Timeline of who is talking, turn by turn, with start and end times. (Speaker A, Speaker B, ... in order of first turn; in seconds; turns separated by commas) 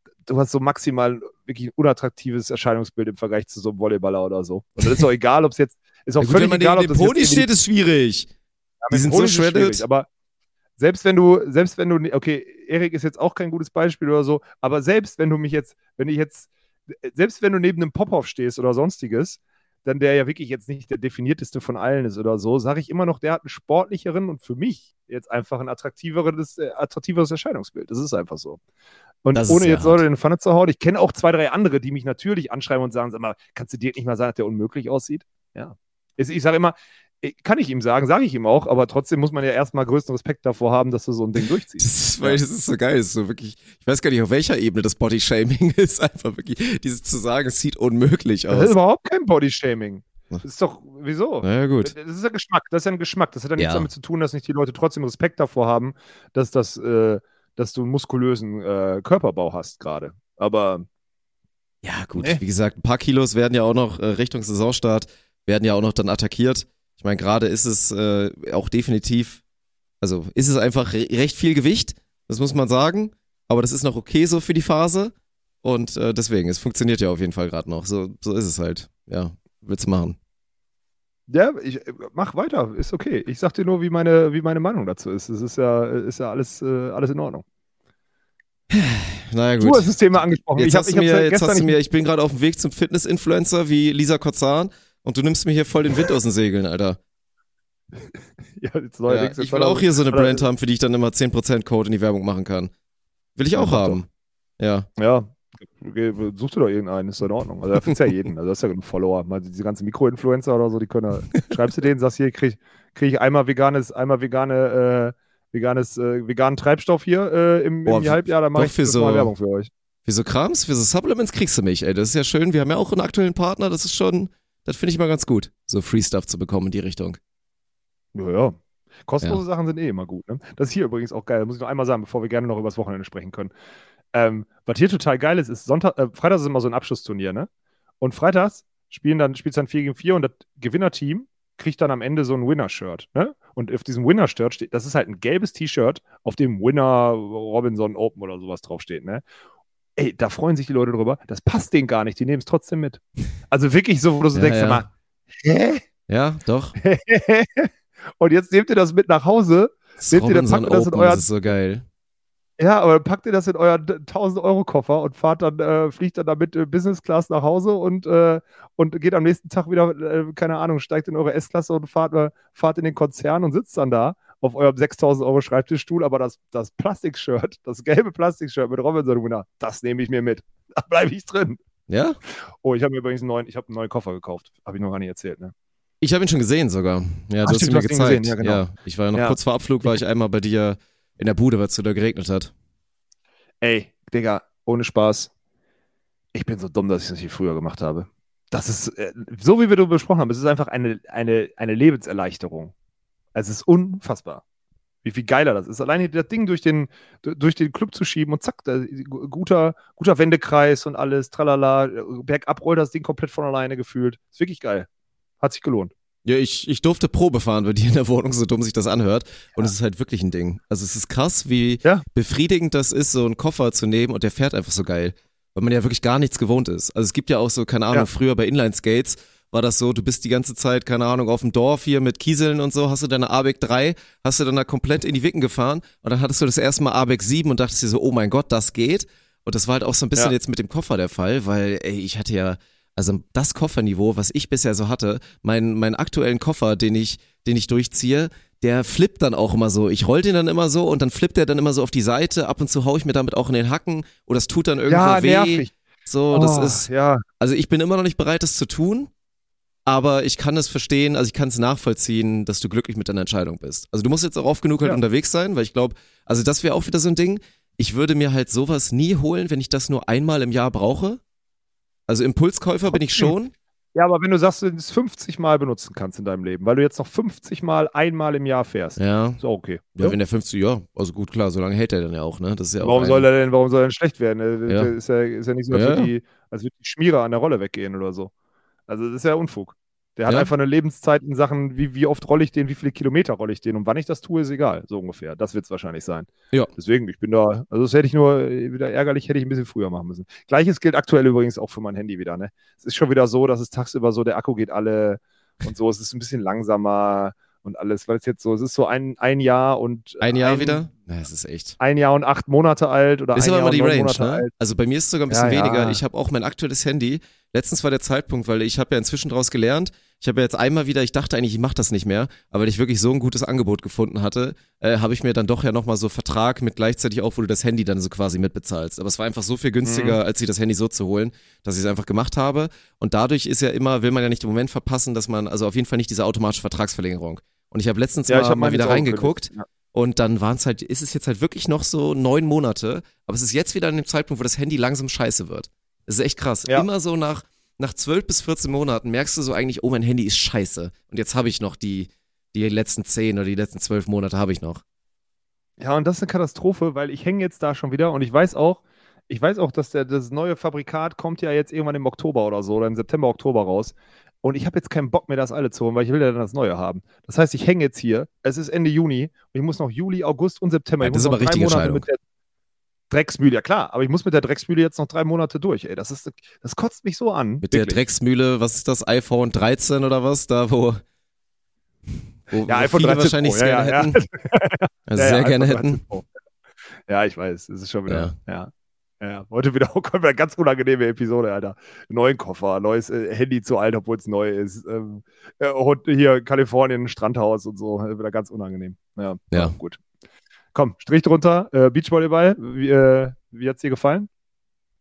Speaker A: 0.2-7.5, Speaker B: 6.2-8.3, Speaker A: 8.8-10.1, Speaker B: 8.9-9.8, Speaker A: 10.8-28.6, Speaker A: 29.2-42.4, Speaker B: 29.3-30.0, Speaker B: 41.8-48.8, Speaker A: 48.5-60.9, Speaker B: 51.4-51.9, Speaker B: 53.6-53.9, Speaker B: 61.8-69.4, Speaker B: 70.0-80.2, Speaker A: 81.3-87.4, Speaker B: 88.7-97.0, Speaker A: 89.6-91.8, Speaker A: 98.0-100.4, Speaker B: 99.1-102.7, Speaker B: 103.3-104.1, Speaker A: 103.5-104.0, Speaker B: 104.6-104.9, Speaker A: 105.0-119.7, Speaker B: 117.8-119.3, Speaker B: 120.0-127.2, Speaker A: 128.1-133.5, Speaker A: 134.1-137.5, Speaker A: 138.0-149.2, Speaker A: 149.9-155.8, Speaker B: 154.3-154.8, Speaker B: 156.1-156.8, Speaker A: 156.8-161.3, Speaker B: 160.0-161.8, Speaker A: 162.6-181.6, Speaker B: 181.9-182.2, Speaker A: 182.6-185.5, Speaker B: 186.0-192.5, Speaker A: 187.4-189.4, Speaker A: 193.6-195.3, Speaker A: 196.3-202.7, Speaker A: 203.3-204.4, Speaker A: 205.0-214.9, Speaker A: 215.4-215.9, Speaker B: 216.2-256.9, Speaker A: 254.9-255.7, Speaker A: 256.3-257.2, Speaker B: 257.4-259.1, Speaker B: 259.9-271.2, Speaker B: 272.1-273.5, Speaker A: 272.9-273.3, Speaker A: 273.9-280.2, Speaker B: 279.0-279.4, Speaker B: 280.0-283.3, Speaker A: 282.8-288.3, Speaker B: 285.7-286.1, Speaker A: 288.9-310.8, Speaker B: 310.2-311.8, Speaker A: 311.8-314.5, Speaker B: 313.3-354.8, Speaker A: 315.3-316.0, Speaker A: 329.8-330.2, Speaker A: 338.3-339.6, Speaker A: 355.8-372.2, Speaker B: 371.0-372.1, Speaker A: 373.1-378.0, Speaker B: 377.6-381.0, Speaker B: 382.5-384.2, Speaker A: 382.6-386.3, Speaker B: 385.1-386.0, Speaker A: 387.1-400.0, Speaker B: 388.1-388.3, Speaker A: 400.7-404.3